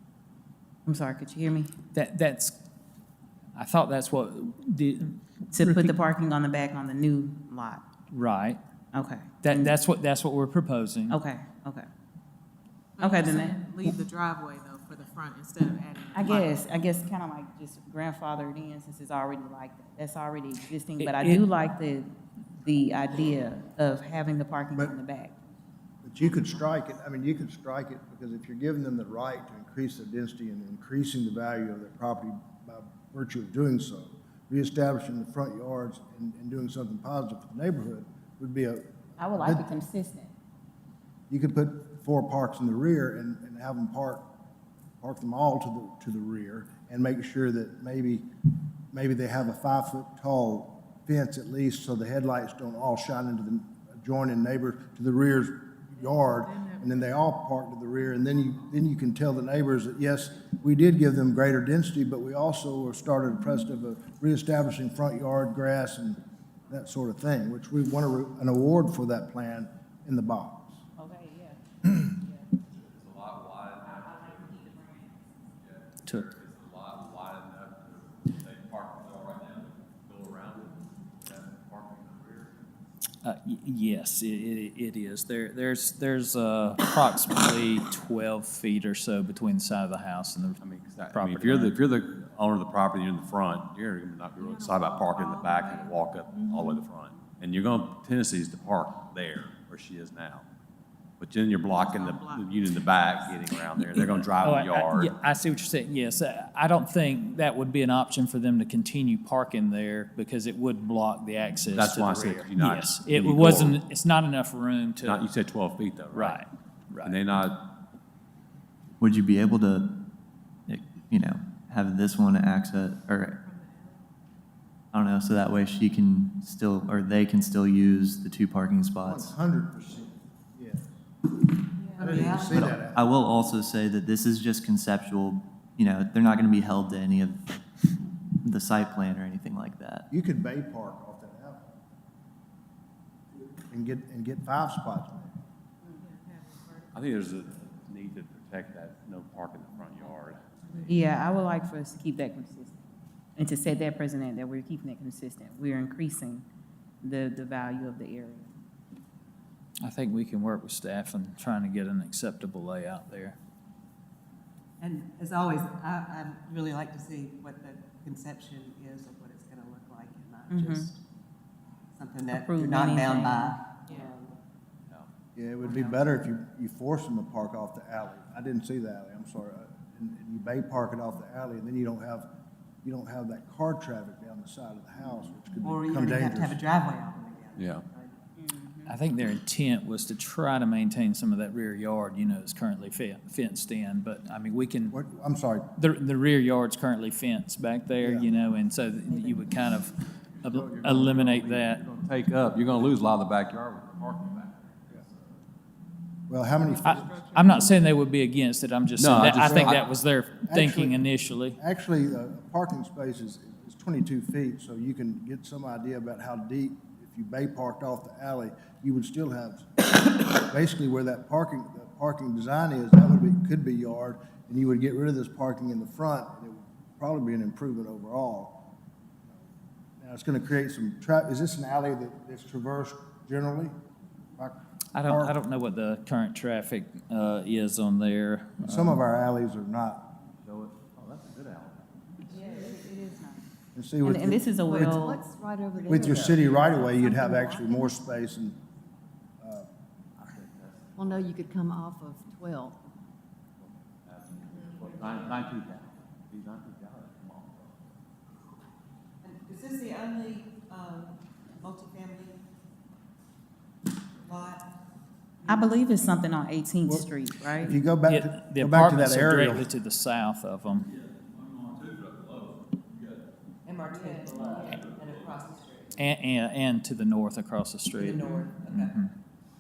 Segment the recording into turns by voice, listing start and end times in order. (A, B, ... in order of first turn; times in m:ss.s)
0:00.8-0:01.7 A
0:01.9-0:02.6 B
0:03.6-0:05.9 B
0:05.5-0:07.8 A
0:08.1-0:08.6 B
0:08.9-0:09.8 A
0:09.4-0:11.2 B
0:11.1-0:11.9 A
0:13.0-0:16.5 C
0:13.0-0:13.9 A
0:16.1-0:25.3 A
0:21.0-0:21.4 B
0:26.0-0:39.7 D
0:39.2-0:40.3 A
0:41.3-0:44.2 D
0:45.0-0:48.3 D
0:48.9-1:10.8 D
1:11.0-1:12.5 A
1:12.7-1:14.7 E
1:13.8-1:15.3 A
1:15.6-1:22.6 E
1:16.0-1:16.3 B
1:23.2-1:30.6 B
1:30.6-1:40.4 E
1:31.1-1:31.8 B
1:34.4-1:35.9 C
1:41.2-1:45.1 E
1:41.8-1:43.5 C
1:43.8-1:55.2 B
1:51.7-1:53.8 E
1:55.0-1:56.4 E
1:56.1-1:57.2 B
1:57.0-1:57.7 E
1:59.0-2:00.0 F
2:00.7-2:03.4 F
2:03.6-2:04.0 C
2:04.9-2:09.3 F
2:09.0-2:10.9 D
2:12.0-2:13.1 D
2:12.0-2:12.8 G
2:12.6-2:20.1 F
2:20.1-2:21.7 D
2:23.7-2:25.3 D
2:26.0-2:27.0 C
2:26.9-2:31.0 E
2:30.9-2:36.4 A
2:37.0-2:38.5 A
2:39.8-2:43.4 B
2:44.8-2:51.0 G
2:50.5-2:50.9 A
2:52.0-2:54.4 G
2:52.3-2:53.6 A
2:55.4-3:02.3 D
2:55.6-2:56.2 G
3:02.8-3:06.6 D
3:05.6-3:08.2 G
3:07.6-3:07.8 E
3:08.4-3:08.9 A
3:08.9-3:15.0 B
3:14.9-3:15.7 D
3:15.8-3:21.8 B
3:18.0-3:18.3 D
3:20.4-3:25.2 E
3:26.3-3:27.8 D
3:26.8-3:31.6 B
3:29.0-3:29.9 E
3:30.5-3:31.0 D
3:31.6-3:48.7 D
3:50.0-3:53.8 D
3:54.4-3:55.4 D
3:54.9-3:58.9 B
3:58.6-4:00.1 D
4:00.4-4:02.5 E
4:02.3-4:03.4 A
4:03.8-4:04.5 D
4:04.0-4:05.2 A
4:04.7-4:08.0 H
4:05.9-4:08.6 D
4:09.4-4:09.7 D
4:10.2-4:11.5 E
4:11.0-4:12.8 H
4:13.6-4:17.8 E
4:19.2-4:22.4 G
4:24.2-4:24.6 G
4:25.5-4:27.8 A
4:26.9-4:29.7 D
4:28.1-4:30.9 B
4:31.0-4:33.2 E
4:33.6-4:36.0 G
4:34.6-4:35.5 E
4:35.9-4:39.1 B
4:37.9-4:39.0 G